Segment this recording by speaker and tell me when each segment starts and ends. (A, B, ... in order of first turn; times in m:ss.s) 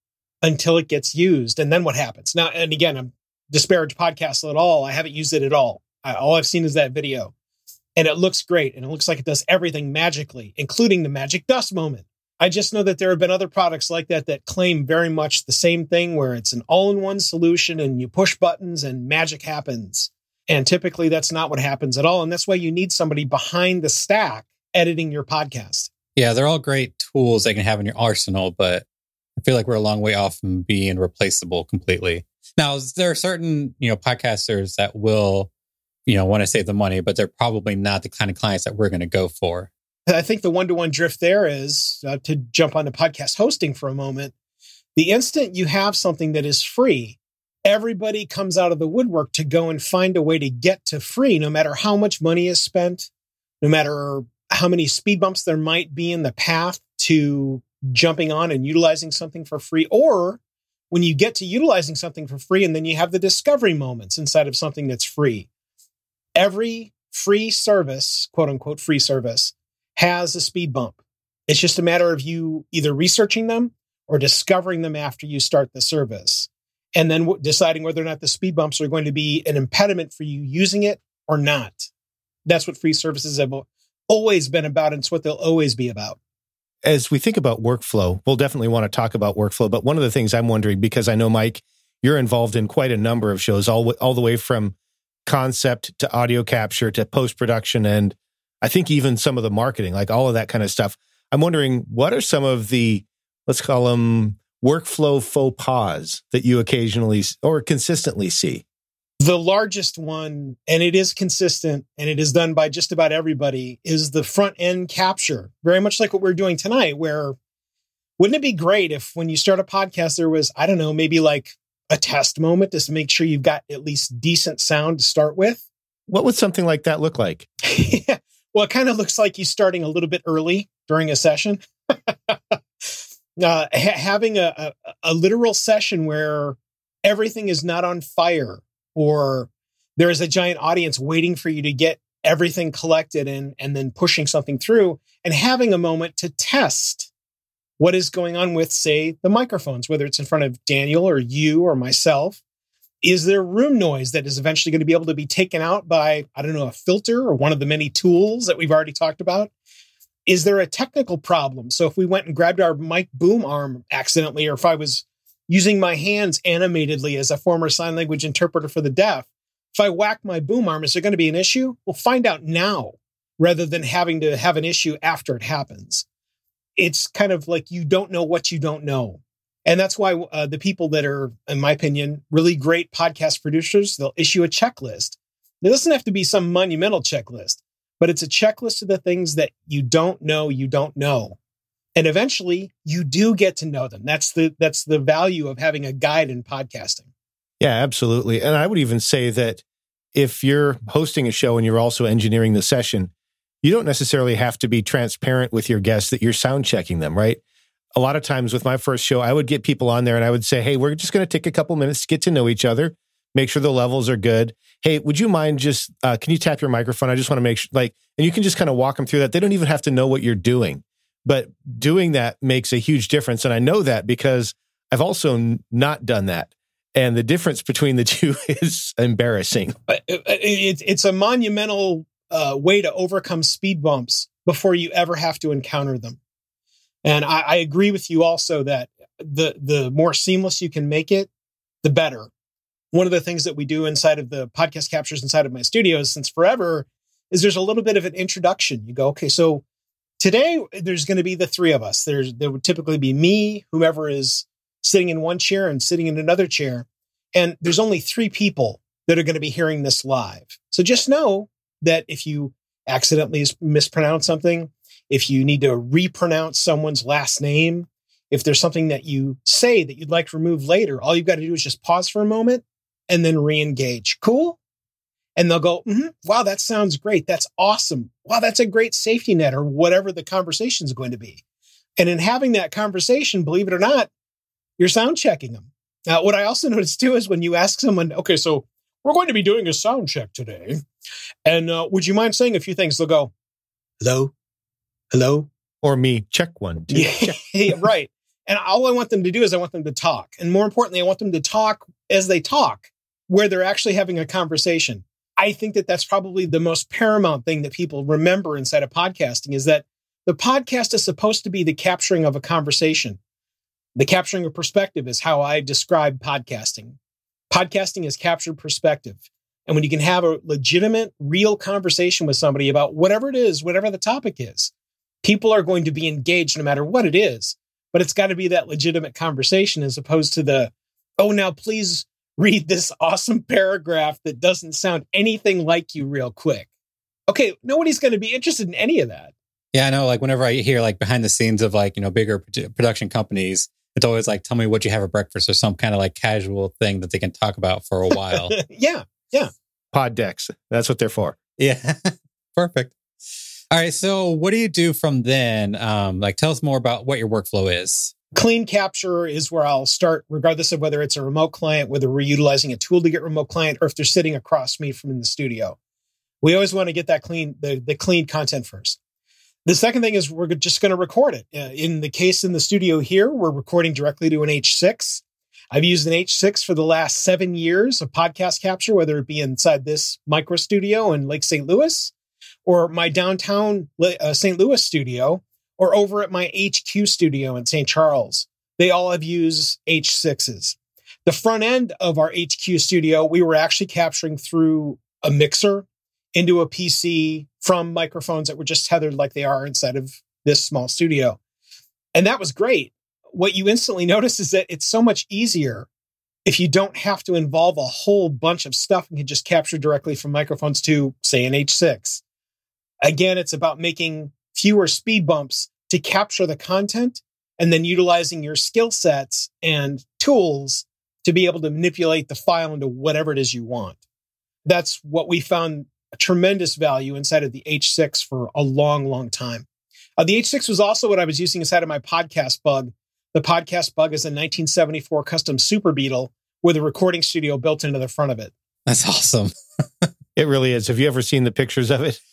0:00.4-0:07.3 A
0:08.0-0:25.9 A
0:26.2-0:28.8 B
0:29.4-0:35.5 B
0:36.0-0:39.7 B
0:40.1-0:44.3 A
0:45.0-0:53.1 A
0:53.6-1:00.4 A
1:00.9-1:05.5 A
1:06.4-1:11.0 A
1:11.5-1:21.9 A
1:22.4-1:26.2 A
1:26.8-1:34.7 C
1:35.2-1:48.6 C
1:49.2-1:57.4 A
1:58.2-2:05.6 A
2:06.1-2:07.4 C
2:07.6-2:12.6 A
2:13.4-2:27.1 A
2:27.8-2:32.4 A
2:33.0-2:39.5 A
2:40.2-2:56.0 A
2:56.8-3:11.4 A
3:12.0-3:17.1 A
3:17.6-3:19.6 C
3:20.1-3:23.1 C
3:23.6-3:27.4 C
3:28.0-3:49.7 C
3:49.9-3:56.2 A
3:57.0-4:01.3 A
4:01.8-4:02.3 A
4:02.9-4:09.6 A
4:10.2-4:34.6 A
4:35.4-4:41.4 A
4:42.0-4:44.1 A
4:44.8-4:50.8 A
4:51.4-4:53.3 A
4:54.0-4:54.3 A
4:55.1-4:55.5 A
4:55.8-4:57.4 C
4:56.9-5:13.2 A
5:14.0-5:17.0 A
5:17.5-5:24.7 A
5:25.2-5:36.7 A
5:37.3-5:39.3 A
5:39.7-5:48.6 B
5:48.5-5:49.5 A
5:49.9-5:51.4 C
5:51.6-5:53.0 B
5:53.7-5:58.1 B
5:58.3-6:05.8 A
6:06.4-6:09.0 A
6:09.6-6:22.1 A
6:22.6-6:41.4 A
6:42.1-6:45.9 A
6:46.4-6:52.2 A
6:53.0-7:04.0 A
7:04.6-7:09.6 A
7:10.2-7:18.5 A
7:18.9-7:19.5 B
7:20.4-7:22.2 C